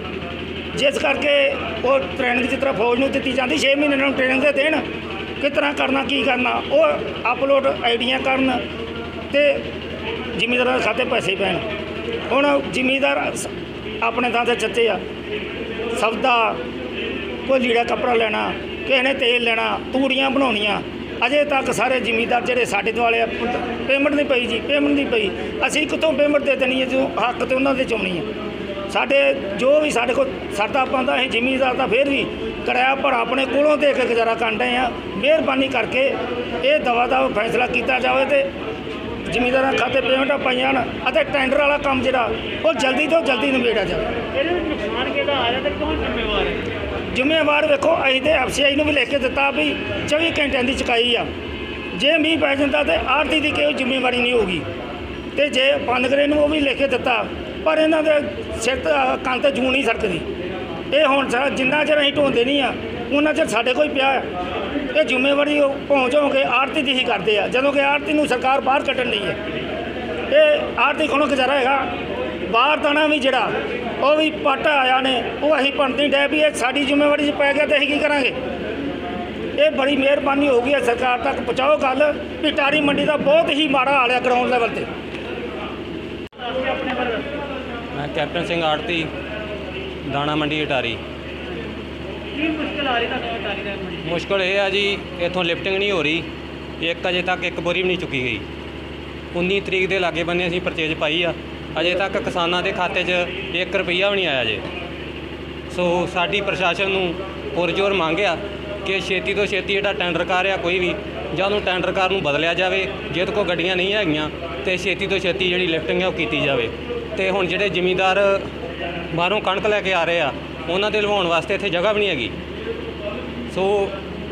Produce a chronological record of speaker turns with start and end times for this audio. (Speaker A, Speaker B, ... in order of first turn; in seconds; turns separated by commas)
Speaker A: 0.7-4.8, Speaker A: 5.4-8.6, Speaker A: 9.3-9.7, Speaker A: 10.3-11.6, Speaker A: 12.3-15.0, Speaker A: 15.9-16.6, Speaker A: 17.4-28.3, Speaker A: 28.9-38.5, Speaker A: 39.3-44.1, Speaker B: 44.3-46.6, Speaker A: 47.1-51.3, Speaker A: 51.9-54.6, Speaker A: 55.3-60.2, Speaker A: 60.9-64.3, Speaker A: 64.9-69.4, Speaker A: 70.3-71.9, Speaker A: 72.5-78.4, Speaker A: 79.6-84.9, Speaker B: 86.4-87.3, Speaker C: 87.9-89.1, Speaker C: 90.0-91.0, Speaker B: 92.3-94.0, Speaker C: 94.0-96.3, Speaker C: 96.8-98.5, Speaker C: 99.3-104.6, Speaker C: 105.7-118.5, Speaker C: 119.1-122.3, Speaker C: 123.5-124.0